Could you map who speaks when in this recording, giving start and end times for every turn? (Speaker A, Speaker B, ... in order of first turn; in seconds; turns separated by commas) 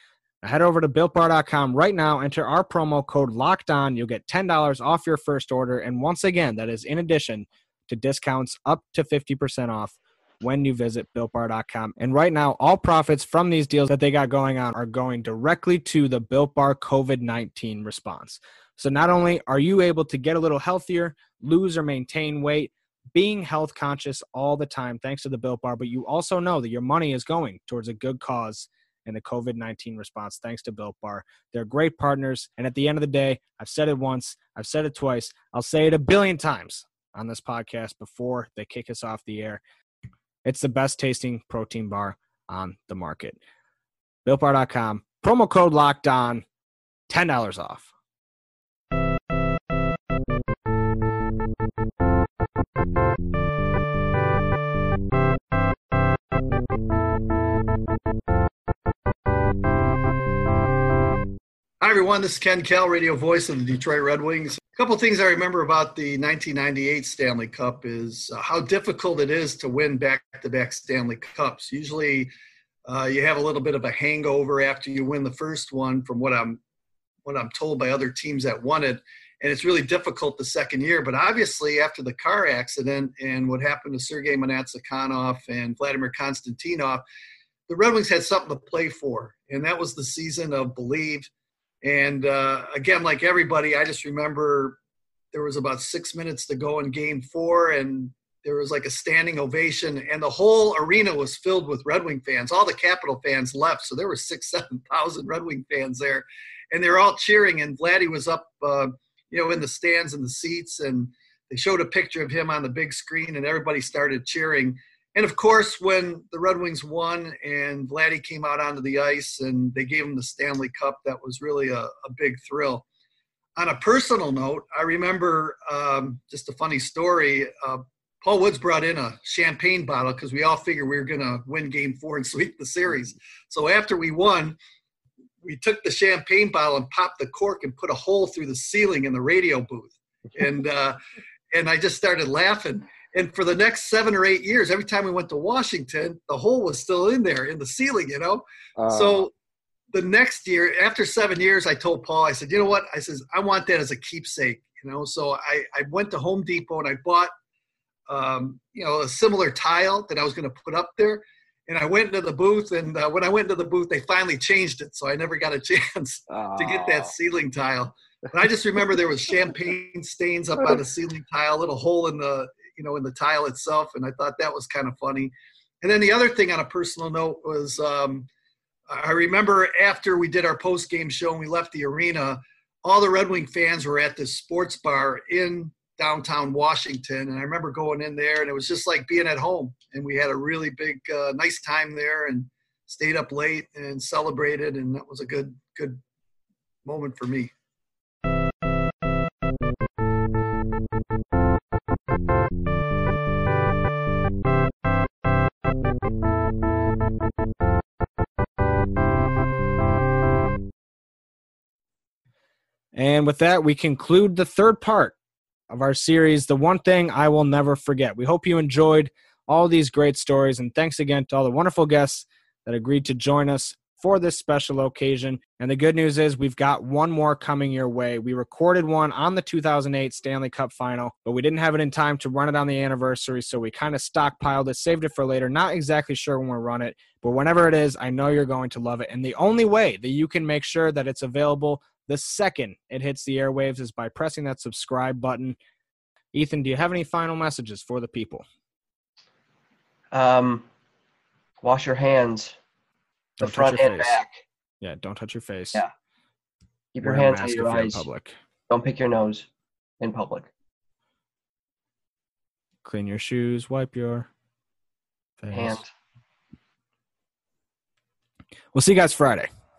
Speaker A: 0.4-39.6, Speaker A: 40.5-43.4, Speaker A: 44.2-46.4, Speaker A: 47.1-47.9, Speaker B: 61.8-72.3, Speaker B: 72.9-76.6, Speaker B: 77.2-87.0, Speaker B: 87.7-91.3, Speaker B: 91.8-94.8, Speaker B: 95.3-122.8, Speaker B: 123.6-134.6, Speaker B: 135.4-141.0, Speaker B: 141.5-149.3, Speaker B: 149.9-157.3, Speaker B: 158.1-178.3, Speaker B: 178.9-196.0, Speaker B: 196.8-197.5, Speaker A: 212.9-215.2, Speaker A: 215.7-245.6, Speaker A: 246.3-248.4, Speaker C: 250.1-250.7, Speaker C: 251.6-252.6, Speaker C: 253.4-254.4, Speaker A: 253.4-254.2, Speaker A: 254.8-255.8, Speaker C: 256.9-258.1, Speaker A: 257.0-258.4, Speaker C: 258.7-259.5, Speaker C: 260.0-260.5, Speaker A: 262.8-264.3, Speaker A: 265.4-265.8, Speaker C: 265.5-265.9, Speaker A: 268.7-269.5